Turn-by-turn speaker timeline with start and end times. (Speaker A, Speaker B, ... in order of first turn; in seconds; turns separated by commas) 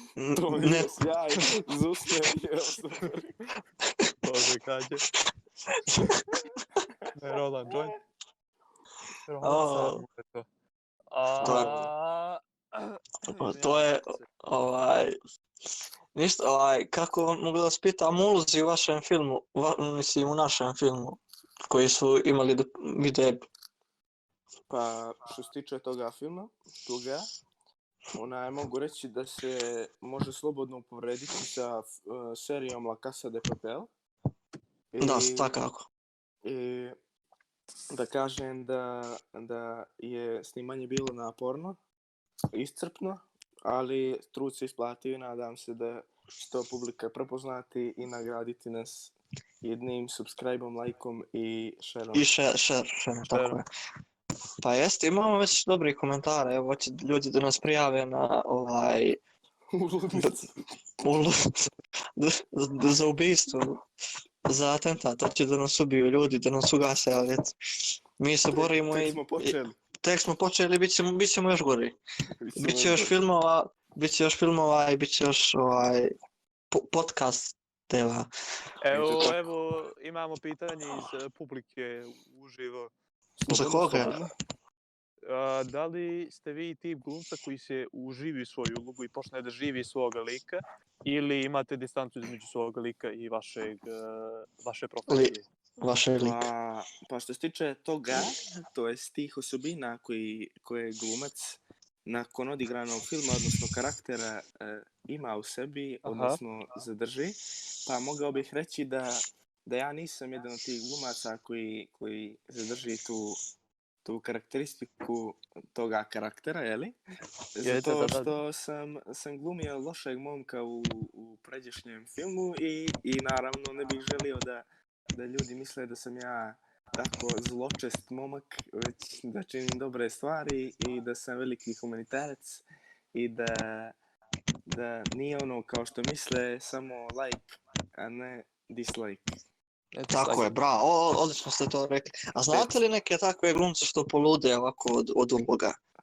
Speaker A: 0.1-0.9, Speaker B: 0.3-3.5, Speaker C: 4.2-5.0, Speaker A: 5.8-6.2, Speaker C: 7.1-8.0, Speaker C: 9.3-10.5, Speaker A: 9.4-10.1, Speaker C: 11.1-14.3, Speaker A: 11.4-11.9, Speaker B: 11.4-11.8, Speaker A: 13.4-15.2, Speaker A: 16.1-23.4, Speaker B: 24.7-27.3, Speaker B: 28.1-33.9, Speaker B: 34.9-35.5, Speaker A: 35.0-35.9, Speaker B: 36.5-37.0, Speaker B: 37.9-41.8, Speaker B: 42.5-52.3, Speaker A: 52.1-53.6, Speaker C: 53.2-53.6, Speaker A: 54.6-59.2, Speaker B: 59.7-60.5, Speaker A: 61.0-63.8, Speaker A: 64.5-67.5, Speaker A: 68.2-72.0, Speaker B: 68.5-69.8, Speaker B: 72.4-73.2, Speaker A: 72.6-76.1, Speaker A: 76.7-78.3, Speaker C: 78.8-82.9, Speaker B: 78.9-79.4, Speaker B: 83.5-84.3, Speaker A: 83.5-84.2, Speaker C: 83.5-84.2, Speaker C: 85.2-95.4, Speaker A: 95.1-96.5, Speaker B: 96.2-113.4, Speaker C: 106.0-106.4, Speaker B: 114.0-117.0, Speaker B: 117.6-132.6, Speaker C: 117.6-118.4, Speaker B: 133.1-134.0, Speaker B: 134.7-139.3, Speaker C: 139.9-140.5, Speaker A: 140.1-145.8